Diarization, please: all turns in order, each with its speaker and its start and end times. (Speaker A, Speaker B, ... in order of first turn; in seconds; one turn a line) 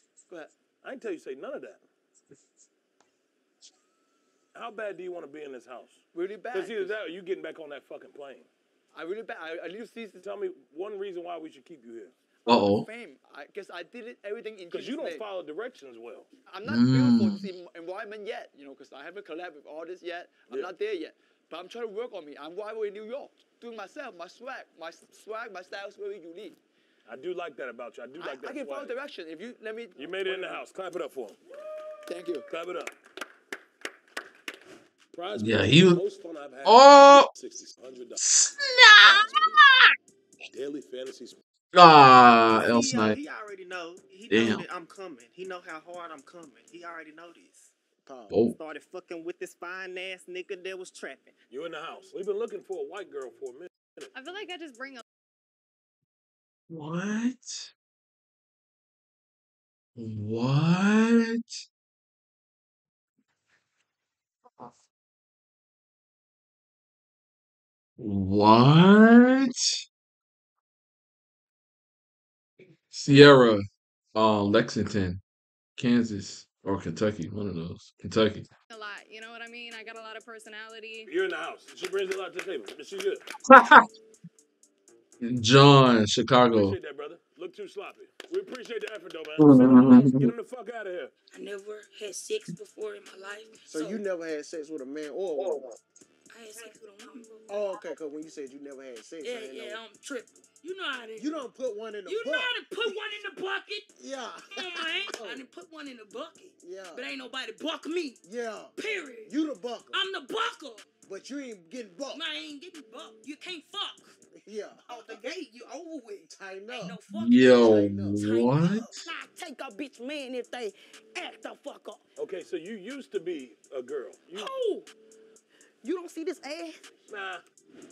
Speaker A: 0.8-1.8
Speaker A: 4.5-8.5
Speaker B: 6.1-7.0
Speaker B: 8.9-10.2
Speaker A: 10.2-12.1
Speaker C: 12.4-12.8
Speaker B: 12.5-15.2
Speaker A: 14.7-16.3
Speaker B: 16.4-26.6
Speaker C: 16.6-17.5
Speaker A: 27.1-28.9
Speaker B: 28.1-30.6
Speaker A: 29.9-31.4
Speaker B: 32.1-32.4
Speaker A: 32.5-32.9
Speaker A: 35.1-38.3
Speaker C: 35.3-36.0
Speaker C: 36.6-37.3
Speaker C: 38.2-39.9
Speaker A: 39.0-39.4
Speaker A: 40.5-41.4
Speaker C: 41.7-43.2
Speaker D: 42.5-47.7
Speaker C: 44.3-44.6
Speaker E: 48.0-48.3
Speaker C: 48.3-48.6
Speaker D: 48.5-51.4
Speaker A: 51.5-54.1
Speaker F: 54.1-55.0
Speaker C: 56.7-57.7
Speaker C: 60.0-61.6
Speaker C: 68.0-69.8
Speaker C: 72.9-75.2
Speaker C: 75.8-78.5
Speaker F: 78.7-81.1
Speaker A: 81.1-83.2
Speaker C: 83.5-83.9
Speaker C: 85.2-86.8
Speaker A: 86.5-91.1
Speaker C: 89.4-90.3
Speaker G: 91.3-94.0
Speaker E: 93.7-95.7
Speaker C: 95.4-95.7
Speaker G: 96.3-97.9
Speaker E: 97.5-99.8
Speaker G: 99.2-101.3
Speaker E: 101.2-103.0
Speaker G: 102.0-103.8
Speaker E: 104.0-105.4
Speaker G: 104.6-108.2
Speaker E: 106.6-107.0
Speaker E: 108.2-108.7
Speaker G: 108.8-109.3
Speaker E: 109.2-110.0
Speaker G: 109.9-110.8
Speaker E: 111.0-112.2
Speaker G: 112.1-114.1
Speaker E: 114.4-115.1
Speaker G: 114.9-122.0
Speaker E: 116.3-117.0
Speaker C: 117.1-119.1
Speaker A: 122.2-124.5
Speaker G: 124.3-124.9
Speaker G: 125.8-126.8
Speaker A: 127.1-127.4